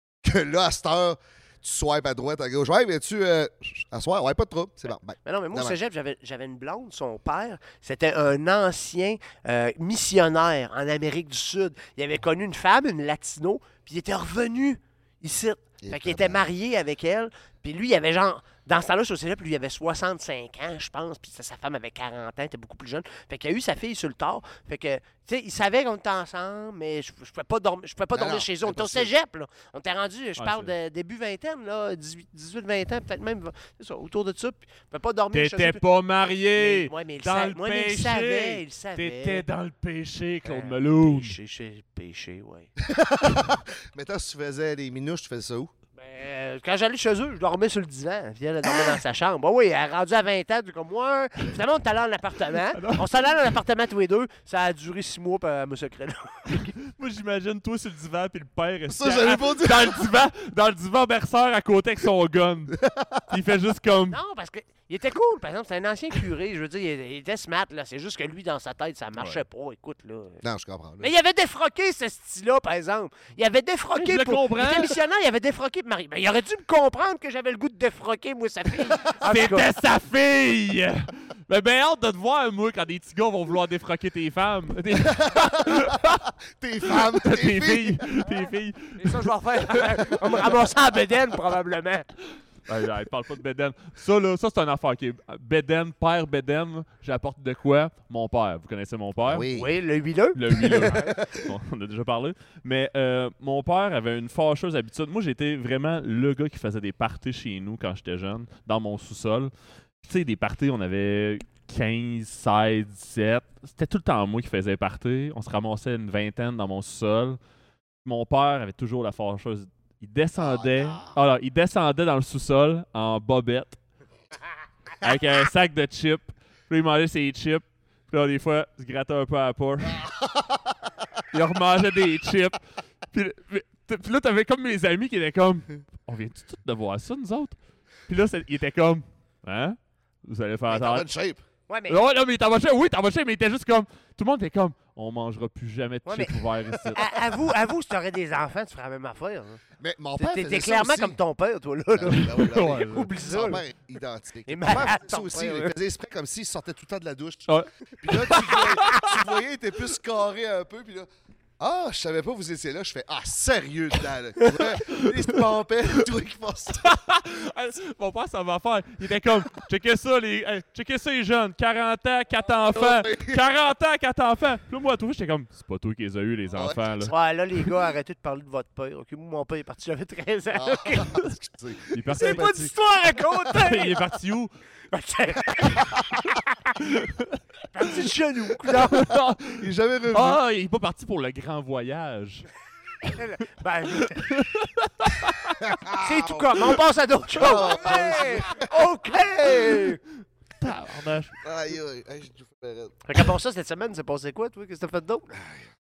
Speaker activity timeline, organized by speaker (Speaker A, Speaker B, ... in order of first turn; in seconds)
Speaker A: 0.2-5.8, 15.8-16.5, 28.1-29.1, 42.8-45.7, 48.6-49.0, 58.9-60.0, 62.8-63.2, 70.4-71.1, 85.0-88.3, 99.2-99.7, 101.0-101.4, 120.4-121.2, 140.7-141.4, 149.8-151.2, 151.9-166.9, 172.7-173.4, 176.5-176.9, 180.5-182.7, 188.9-190.4, 195.6-196.8, 197.3-198.7, 199.4-199.8, 201.4-202.9
Speaker B: 5.2-35.8, 36.6-39.5, 40.4-42.7, 46.0-56.7, 64.1-70.4, 71.0-79.7, 89.0-92.1, 99.5-101.1, 141.7-142.0, 146.1-146.4, 146.9-149.6, 150.2-153.6, 154.5-155.7, 158.3-159.2, 177.0-181.2, 182.1-184.1, 184.9-186.4, 187.7-189.1, 193.0-194.3, 196.0-200.0, 203.1-205.3
Speaker C: 30.4-30.7, 35.3-41.4, 52.8-53.1, 56.8-64.2, 69.2-69.4, 74.0-75.0, 79.0-86.2, 86.8-90.5, 92.7-99.5, 100.3-109.5, 110.0-117.4, 118.0-123.8, 125.0-130.1, 131.3-132.6, 133.1-141.1, 141.9-147.1, 152.1-153.1, 157.5-159.0, 166.8-177.1, 181.9-182.7, 183.4-184.5, 186.8-187.4, 188.7-192.5, 194.1-195.6, 200.6-201.3